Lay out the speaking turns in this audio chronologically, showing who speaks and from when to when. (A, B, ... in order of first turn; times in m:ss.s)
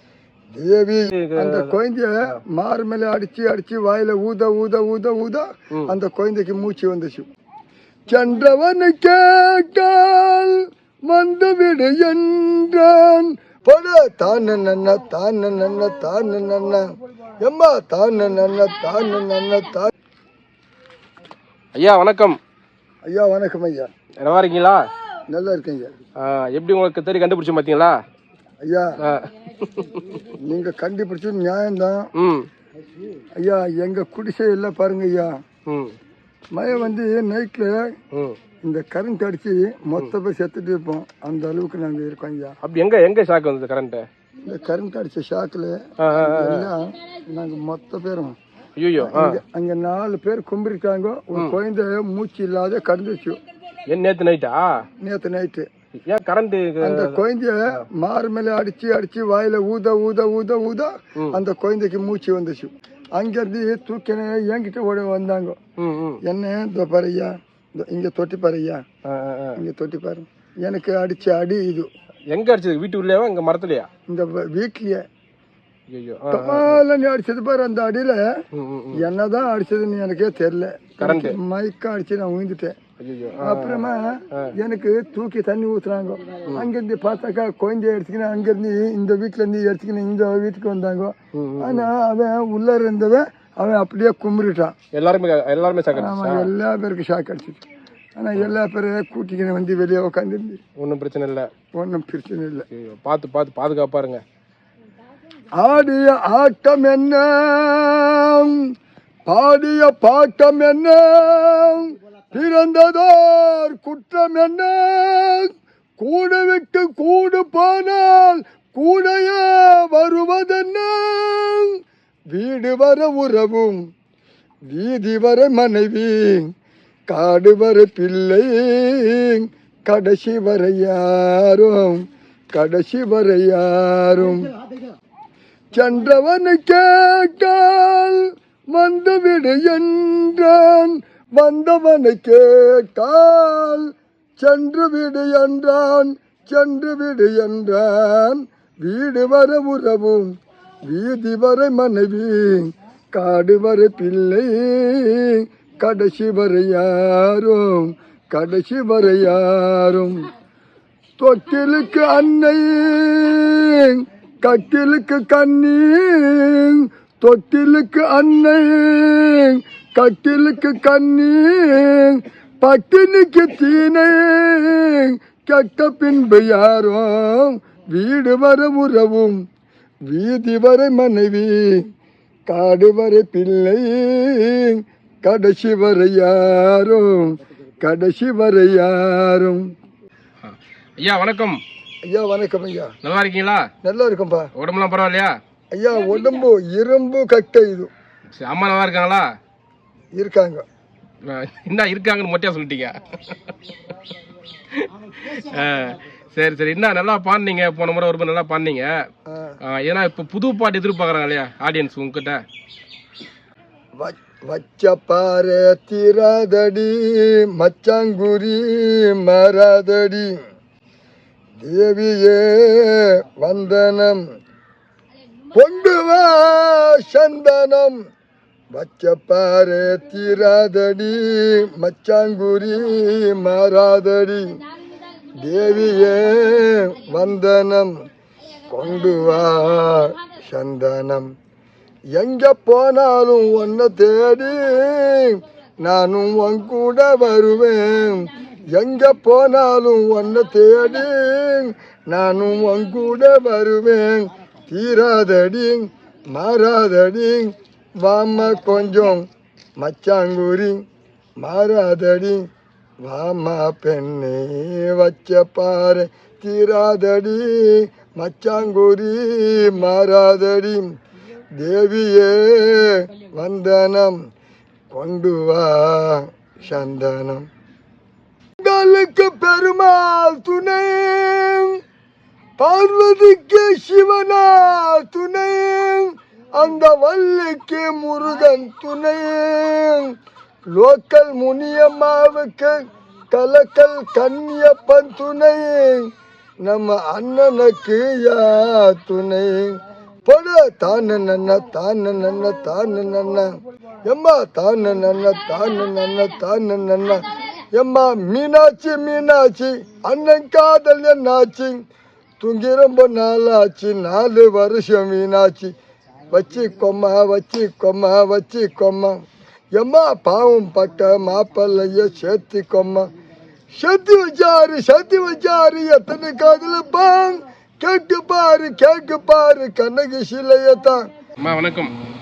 0:00.5-0:07.3 A
0:01.1-0:01.7 B
0:08.1-0:16.8 A
0:17.4-0:19.9 A
0:21.8-0:22.4 B
0:23.0-0:23.9 A
0:24.2-0:24.8 B
0:25.3-0:25.9 A
0:26.2-0:28.0 B
0:28.6-0:28.9 A
0:29.0-0:30.2 B
0:30.4-0:32.1 A
0:32.2-0:32.5 B
0:33.4-0:35.3 A
0:35.7-0:35.9 B
0:36.5-0:37.8 A
0:38.6-0:42.5 A
0:42.6-0:44.0 B
0:44.4-0:48.4 A
0:46.0-0:46.7 B
0:48.8-0:49.4 B
0:49.0-0:53.4 A
0:53.9-0:54.6 B
0:55.0-0:55.6 A
0:56.1-0:57.2 B
0:56.8-1:05.6 A
1:05.8-1:06.2 B
1:06.2-1:08.8 A
1:09.0-1:09.6 B
1:09.6-1:11.9 A
1:12.3-1:13.9 B
1:14.1-1:15.0 A
1:15.9-1:16.8 B
1:16.3-1:18.3 A
1:18.5-1:19.0 B
1:18.9-1:22.8 A
1:21.0-1:21.4 B
1:23.0-1:24.5 B
1:23.4-1:34.7 A
1:31.3-1:31.9 B
1:34.9-1:36.5 B
1:35.9-1:37.6 A
1:38.2-1:40.6 A
1:40.8-1:41.5 B
1:41.7-1:42.6 A
1:42.7-1:44.2 B
1:45.6-1:48.6 A
1:49.3-2:01.8 A
2:02.3-2:03.8 A
2:04.7-2:06.5 A
2:07.1-2:14.5 A
2:15.7-2:30.3 A
2:30.8-2:40.2 A
2:41.2-2:59.4 A
3:00.1-3:01.9 A
3:02.5-3:09.6 A
3:10.4-3:11.6 B
3:12.1-3:12.9 A
3:13.0-3:13.6 B
3:13.8-3:14.5 A
3:14.6-3:15.3 B
3:15.7-3:17.9 A
3:18.4-3:19.2 B
3:20.1-3:20.6 A
3:21.3-3:23.4 B
3:24.7-3:28.9 B
3:29.3-3:29.6 A
3:29.6-3:32.4 B
3:34.0-3:40.3 A
3:41.6-3:44.2 A
3:45.5-3:48.0 A
3:48.7-3:54.4 A
3:55.4-3:57.9 A
3:58.6-4:01.3 A
4:02.1-4:19.2 A
4:19.8-4:20.8 A
4:21.4-4:22.4 A
4:23.0-4:30.9 A
4:31.6-4:34.2 A
4:34.9-4:37.4 A
4:38.6-4:41.8 A
4:42.6-4:50.1 A
4:50.7-4:52.8 A
4:53.3-4:56.0 A
4:56.6-4:59.7 A
5:00.2-5:03.5 A
5:04.0-5:11.8 A
5:12.4-5:15.7 A
5:16.3-5:19.2 A
5:19.8-5:23.1 A
5:23.8-5:31.1 A
5:31.4-5:31.9 B